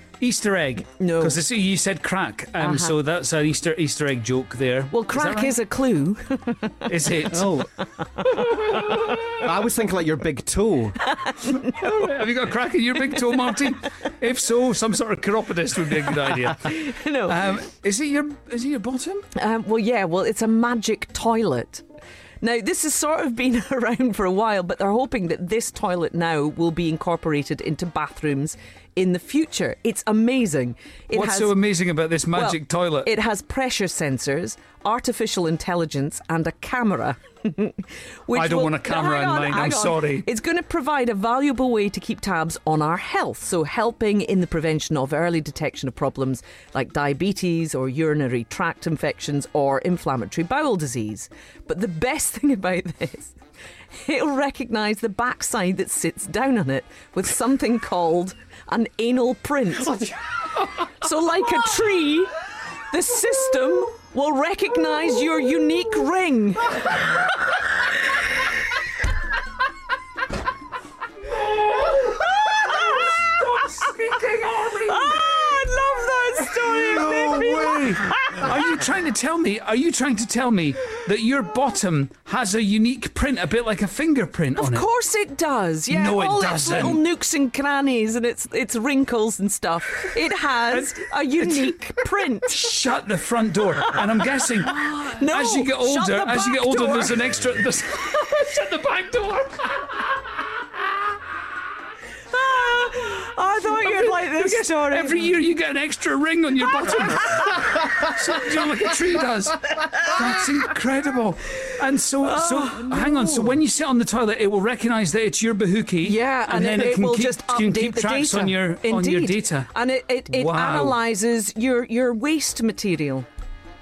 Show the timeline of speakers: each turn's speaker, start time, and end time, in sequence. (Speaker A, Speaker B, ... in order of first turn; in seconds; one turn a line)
Speaker A: 0.2-5.6
Speaker B: 1.0-1.4
Speaker B: 2.6-2.9
Speaker B: 4.9-6.9
Speaker A: 6.8-7.7
Speaker C: 7.3-7.7
Speaker A: 8.2-9.3
Speaker B: 8.4-8.8
Speaker C: 9.3-11.0
Speaker B: 11.1-11.7
Speaker A: 11.5-19.2
Speaker B: 16.6-17.4
Speaker B: 19.4-21.8
Speaker B: 22.4-31.6
Speaker A: 31.1-33.1
Speaker B: 32.3-53.3
Speaker A: 38.3-40.3
Speaker B: 53.9-60.1
Speaker B: 60.8-62.3
Speaker B: 62.9-66.7
Speaker A: 71.9-75.2
Speaker B: 72.5-73.0
Speaker B: 74.8-78.5
Speaker A: 76.5-84.9
Speaker B: 84.5-92.7
Speaker A: 85.9-87.0
Speaker A: 90.7-91.7
Speaker A: 92.5-100.0
Speaker B: 93.8-97.3
Speaker B: 102.3-105.4
Speaker A: 103.6-119.7
Speaker B: 112.2-113.6
Speaker B: 116.0-123.3
Speaker A: 120.3-121.0